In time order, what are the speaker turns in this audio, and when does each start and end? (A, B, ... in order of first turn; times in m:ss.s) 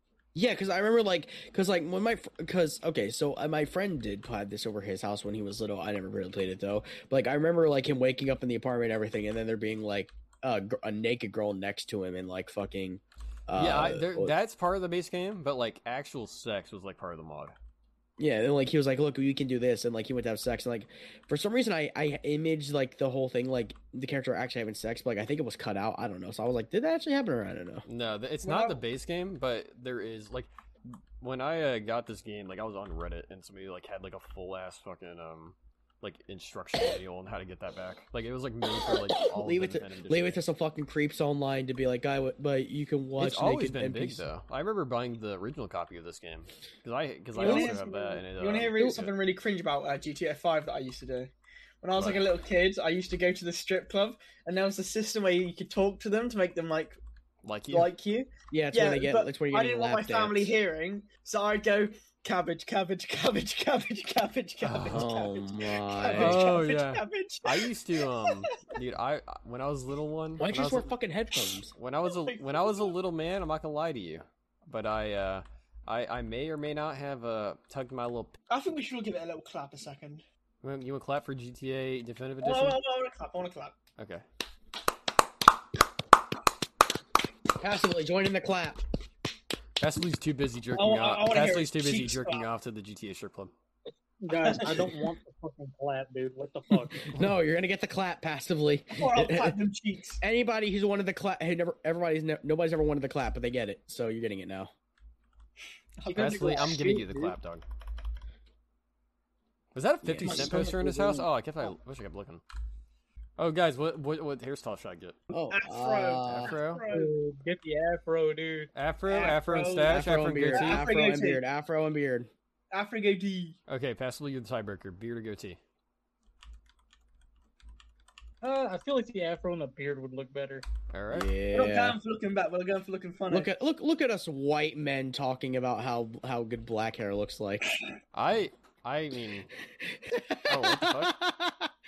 0:00.3-0:14.4 A
0:13.5-0:17.5 B
0:18.2-0:27.8 A
0:27.9-0:40.4 B
0:28.4-0:28.8 C
0:38.7-0:44.3 A
0:43.2-0:49.2 B
0:47.3-0:57.0 C
0:47.4-0:47.8 A
0:52.0-0:52.3 B
0:57.4-0:57.9 B
0:57.7-1:07.7 C
0:58.5-1:00.5 A
1:04.6-1:05.1 B
1:04.9-1:06.4 A
1:06.1-1:10.9 B
1:08.2-1:08.5 C
1:10.4-1:11.7 A
1:11.8-1:18.4 B
1:12.0-1:12.9 C
1:18.5-1:20.2 C
1:20.6-1:22.8 B
1:22.4-1:23.8 C
1:24.0-1:24.2 B
1:27.6-1:28.8 A
1:29.8-1:33.5 B
1:30.7-1:32.5 C
1:34.2-1:37.2 D
1:37.1-1:39.6 A
1:39.0-1:40.2 C
1:40.2-1:44.7 A
1:46.0-1:47.0 C
1:46.0-1:47.3 D
1:46.1-1:47.6 B
1:49.7-1:52.4 B
1:50.0-1:51.2 A
1:53.4-1:55.2 B
1:55.3-1:56.5 A
1:55.5-1:57.1 C
1:56.2-1:56.8 B
1:56.9-1:58.7 D
1:58.7-2:00.8 B
1:59.0-2:01.4 C
1:59.9-2:02.3 A
2:02.7-2:03.6 C
2:03.7-2:05.6 B
2:08.4-2:10.6 D
2:10.9-2:11.3 B
2:11.1-2:12.0 A
2:11.5-2:13.5 C
2:13.3-2:17.7 A
2:18.1-2:19.5 B
2:19.7-2:21.7 A
2:20.5-2:21.2 B